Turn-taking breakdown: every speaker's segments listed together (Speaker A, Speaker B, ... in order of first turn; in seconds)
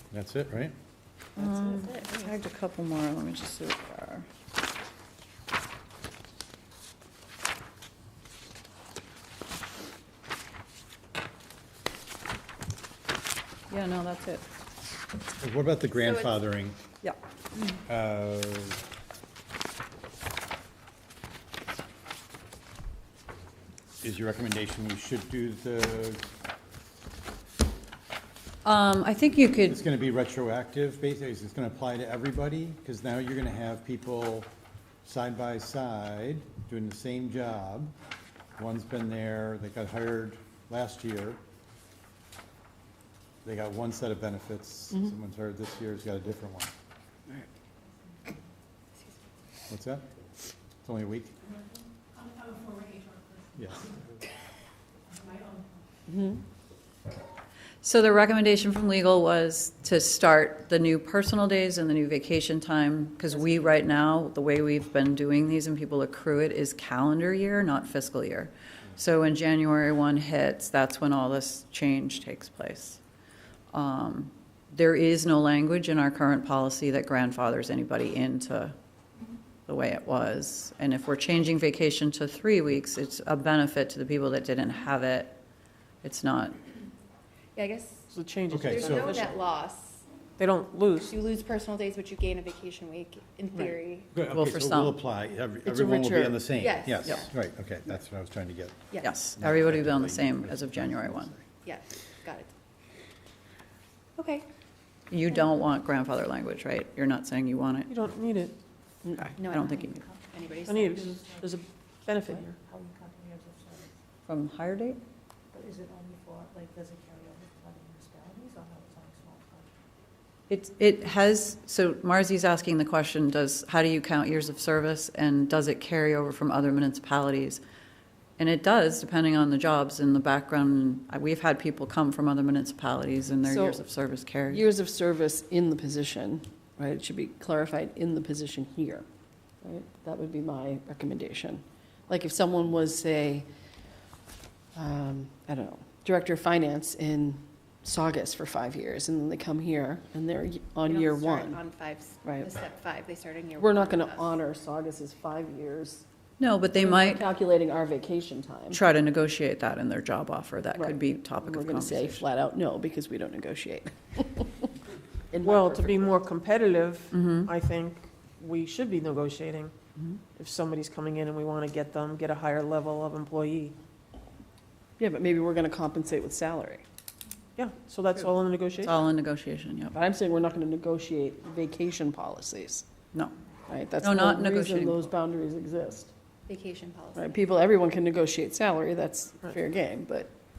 Speaker A: 0.1-0.7, 15.4-16.8, 17.9-18.8, 24.0-26.3, 29.7-34.5, 35.0-37.9, 38.6-41.4, 43.4-46.7, 49.7-50.0, 50.8-51.3, 53.6-53.9, 88.5-89.0, 94.1-101.3
Speaker B: 1.4-2.1, 56.1-56.4, 95.6-96.4, 109.1-109.3, 133.4-133.8, 134.5-139.0, 139.6-143.4, 144.7-151.6, 153.6-156.0, 156.7-158.8, 160.7-164.7, 165.3-166.2, 175.0-176.8, 179.9-182.8, 183.7-186.1, 187.2-190.3
Speaker C: 1.4-4.2, 13.7-14.4, 28.6-29.8, 57.8-73.0, 73.7-78.7, 79.7-85.4, 86.0-86.6, 94.3-95.0, 99.0-101.3, 105.1-107.9, 109.4-110.0, 114.3-115.0, 120.5-127.6, 128.4-134.6, 156.4-157.2, 158.7-162.2, 167.1-167.5, 178.8-179.9, 184.0-185.1
Speaker D: 15.9-16.4, 87.5-90.0, 91.0-94.1, 96.6-97.3, 101.6-102.5, 104.2-104.5, 109.4-111.2, 150.8-154.4, 186.5-187.4
Speaker E: 52.2-53.4, 112.6-113.9, 115.5-119.7
Speaker F: 88.1-89.4, 90.4-91.1, 107.9-108.6, 110.7-112.6, 165.4-169.7, 170.3-173.8, 177.6-179.0